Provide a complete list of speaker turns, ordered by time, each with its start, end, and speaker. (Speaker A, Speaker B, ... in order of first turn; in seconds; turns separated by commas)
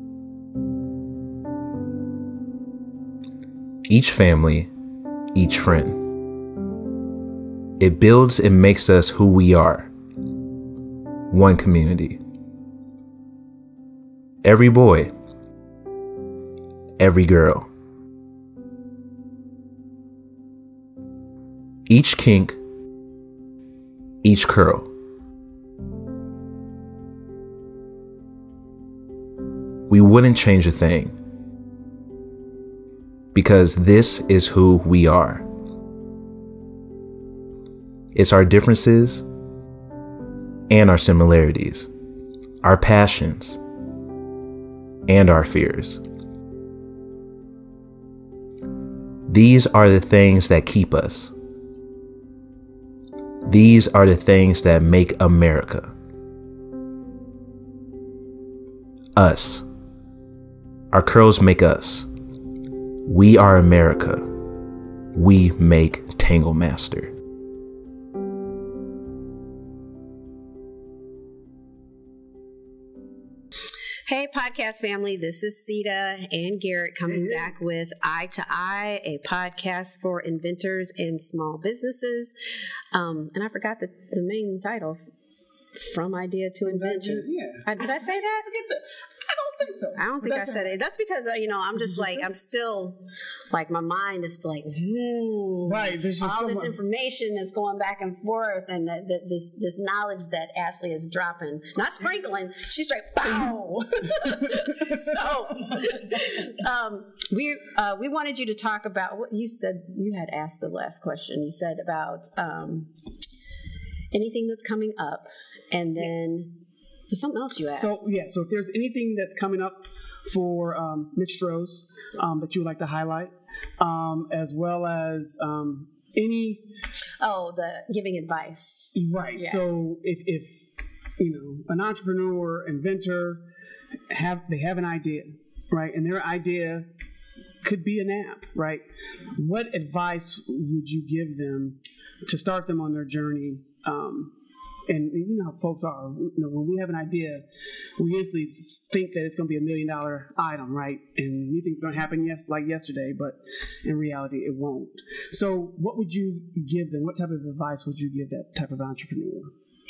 Speaker A: 3.9-4.7, Speaker A: 5.3-6.0, Speaker A: 7.8-9.9, Speaker A: 11.3-12.2, Speaker A: 14.4-15.1, Speaker A: 17.0-17.7, Speaker A: 21.9-22.6, Speaker A: 24.2-24.9, Speaker A: 29.9-31.2, Speaker A: 33.3-35.5, Speaker A: 38.1-39.2, Speaker A: 40.7-41.9, Speaker A: 42.6-43.6, Speaker A: 45.1-46.0, Speaker A: 49.3-51.3, Speaker A: 53.5-55.9, Speaker A: 59.2-59.6, Speaker A: 60.9-62.1, Speaker A: 63.1-64.3, Speaker A: 65.1-67.1, Speaker B: 74.1-85.0, Speaker C: 77.1-77.5, Speaker B: 85.8-88.5, Speaker C: 86.7-90.8, Speaker B: 90.0-112.9, Speaker C: 91.8-92.3, Speaker C: 95.7-96.8, Speaker C: 104.5-106.5, Speaker B: 114.1-116.5, Speaker C: 116.0-116.3, Speaker B: 117.1-118.1, Speaker C: 117.8-126.6, Speaker B: 127.2-129.8, Speaker C: 128.9-130.7, Speaker C: 131.2-133.4, Speaker C: 134.1-136.9, Speaker C: 137.6-138.8, Speaker C: 139.3-144.3, Speaker C: 144.9-147.4, Speaker C: 148.0-159.5